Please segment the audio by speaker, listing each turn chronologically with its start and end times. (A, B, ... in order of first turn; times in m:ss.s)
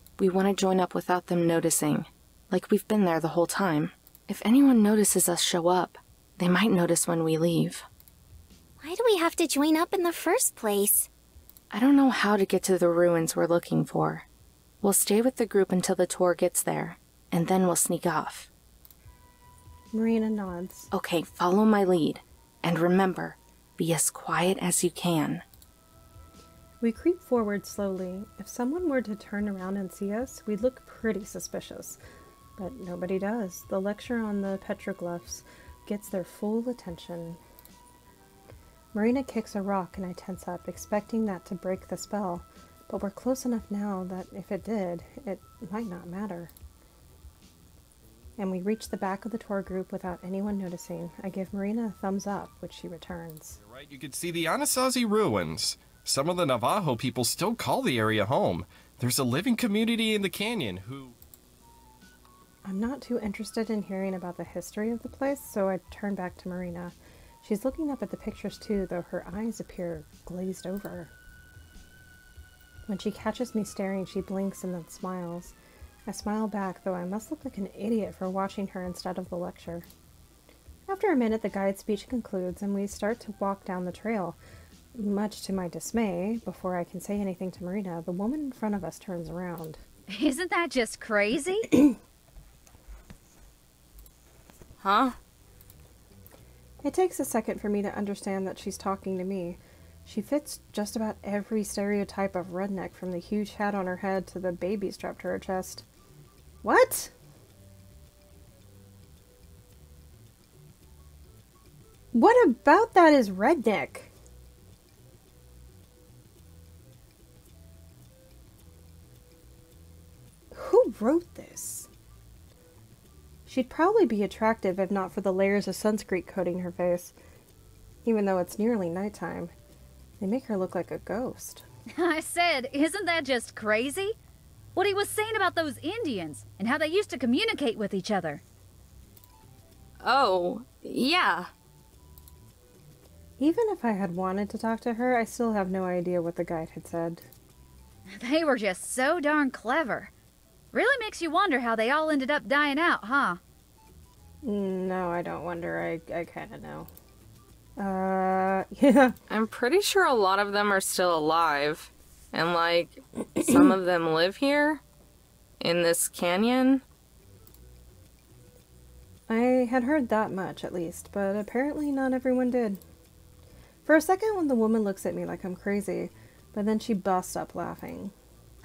0:00.2-0:07.8 A
0:08.8-0:11.1 B
0:11.7-0:14.3 A
0:14.8-0:18.5 A
0:19.9-0:20.9 C
0:20.9-0:25.4 A
0:26.8-0:32.0 C
0:32.6-0:37.4 C
0:38.9-0:46.5 C
0:48.4-0:53.6 C
0:53.6-1:01.1 D
1:02.6-1:11.1 C
1:12.9-1:15.6 C
1:16.1-1:19.9 C
1:20.9-1:24.4 C
1:24.9-1:29.8 C
1:30.1-1:31.7 E
1:34.8-1:35.2 A
1:36.8-1:45.9 C
1:46.6-1:47.1 C
1:52.1-1:54.1 C
2:00.5-2:01.9 C
2:03.5-2:07.2 C
2:08.0-2:09.5 C
2:10.2-2:11.6 C
2:12.0-2:14.2 E
2:14.7-2:18.4 E
2:20.0-2:21.5 A
2:23.4-2:27.3 C
2:28.1-2:30.1 E
2:30.7-2:33.4 E
2:34.4-2:36.9 C
2:37.8-2:39.2 C
2:39.3-2:44.8 A
2:45.6-2:46.8 A
2:49.3-2:52.8 C
2:53.8-2:58.1 C